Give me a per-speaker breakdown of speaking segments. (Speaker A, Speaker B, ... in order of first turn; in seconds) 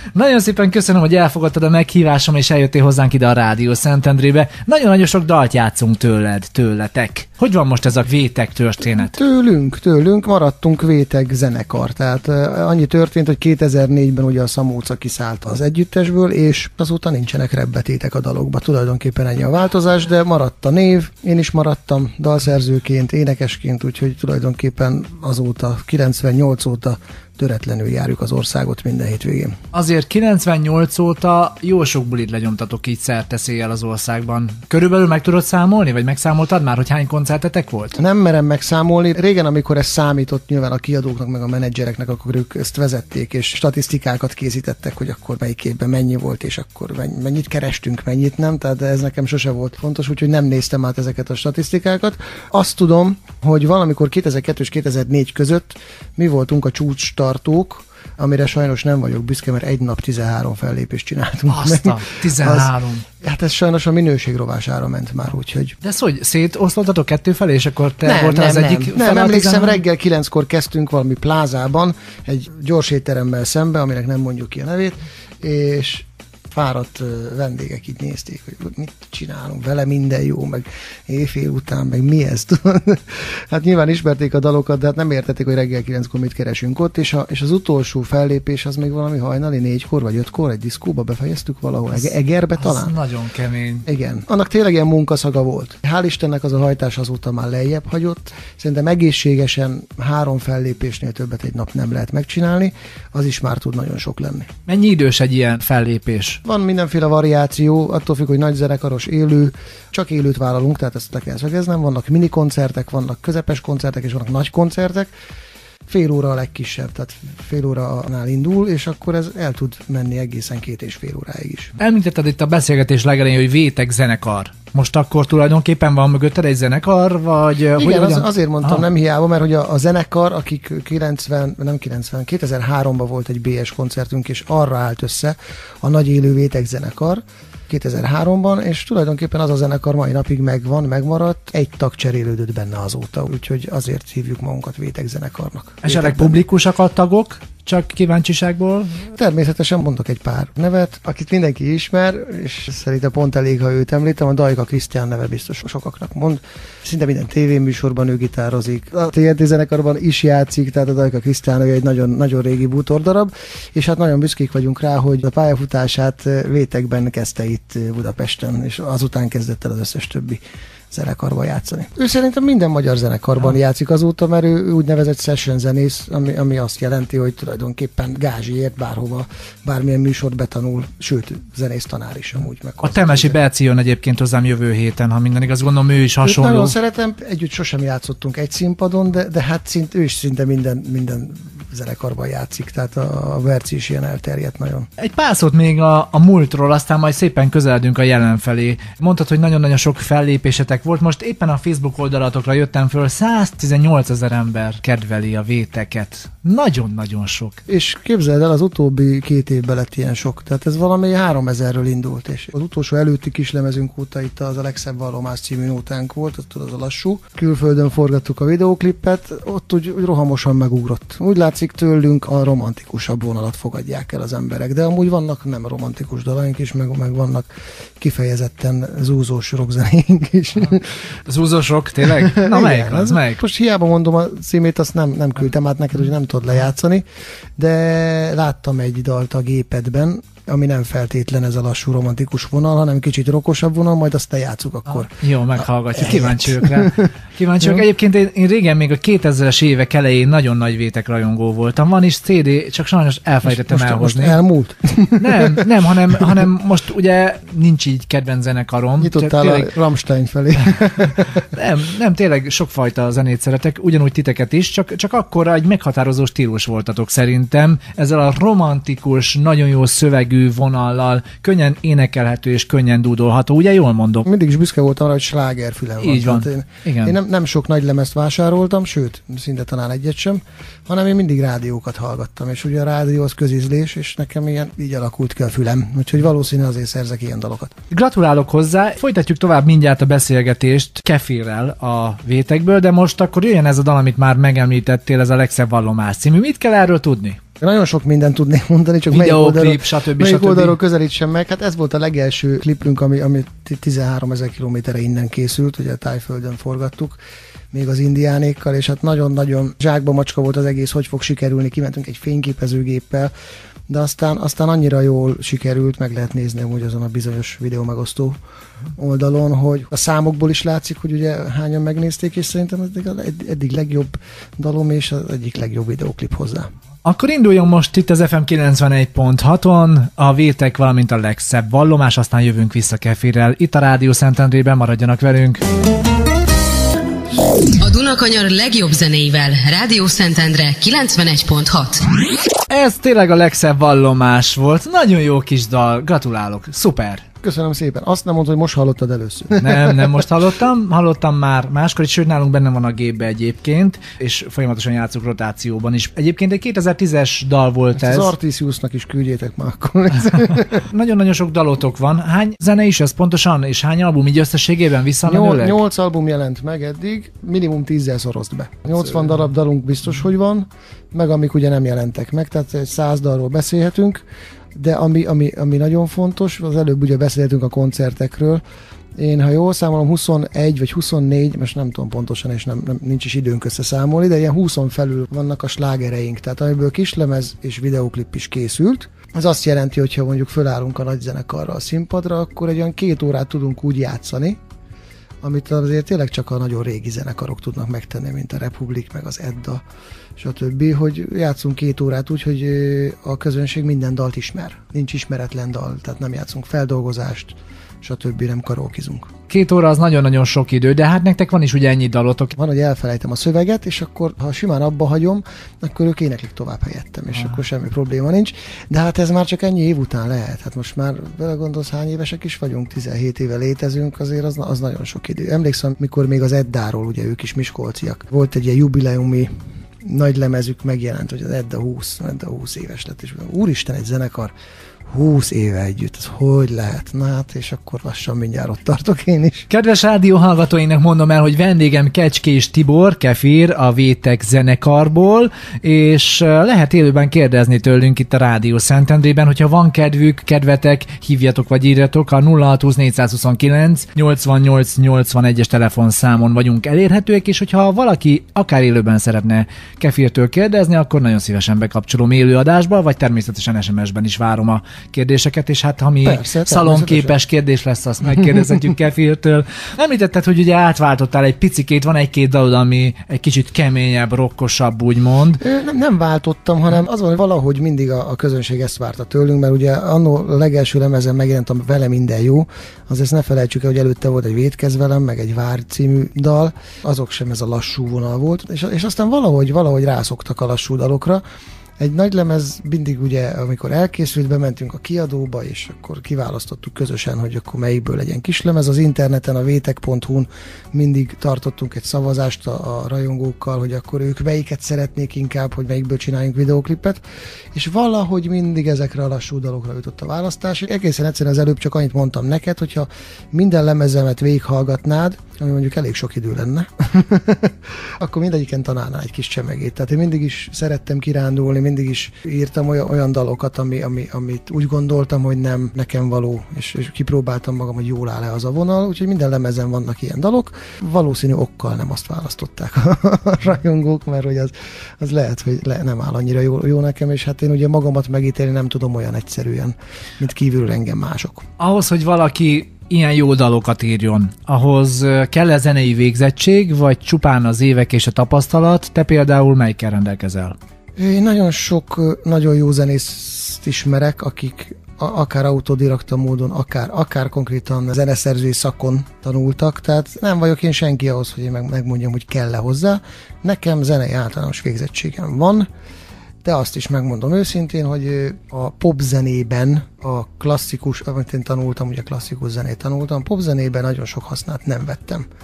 Speaker A: 0.1-9.1, 29.7-38.0, 61.5-63.0, 65.8-69.8, 92.6-93.8, 104.7-106.4, 121.8-128.8, 145.8-149.0, 182.8-186.8, 195.0-207.6, 231.2-233.4, 244.9-254.4, 255.2-259.7, 261.5-274.2, 276.0-277.1, 287.9-297.4, 299.1-300.8, 327.0-335.6, 342.7-347.2, 349.6-358.3, 360.7-365.8, 409.5-412.5, 439.7-475.6, 541.8-550.8
Speaker B: 8.8-29.6, 38.0-65.8, 68.0-92.9, 93.8-104.5, 106.4-115.1, 115.9-121.8, 127.8-146.4, 149.1-183.3, 186.2-194.9, 207.7-230.9, 232.0-237.0, 237.6-247.1, 253.5-255.6, 259.0-261.4, 274.2-287.7, 297.6-307.2, 307.7-313.3, 313.9-318.4, 318.9-326.7, 347.4-350.2, 358.0-360.9, 365.2-374.2, 374.7-378.6, 379.1-394.6, 395.4-399.8, 400.4-409.3, 412.6-434.5, 435.1-439.7, 466.2-467.4, 475.6-491.4, 492.0-507.2, 507.7-541.6, 551.2-565.9, 566.6-575.4
Speaker C: 337.8-342.0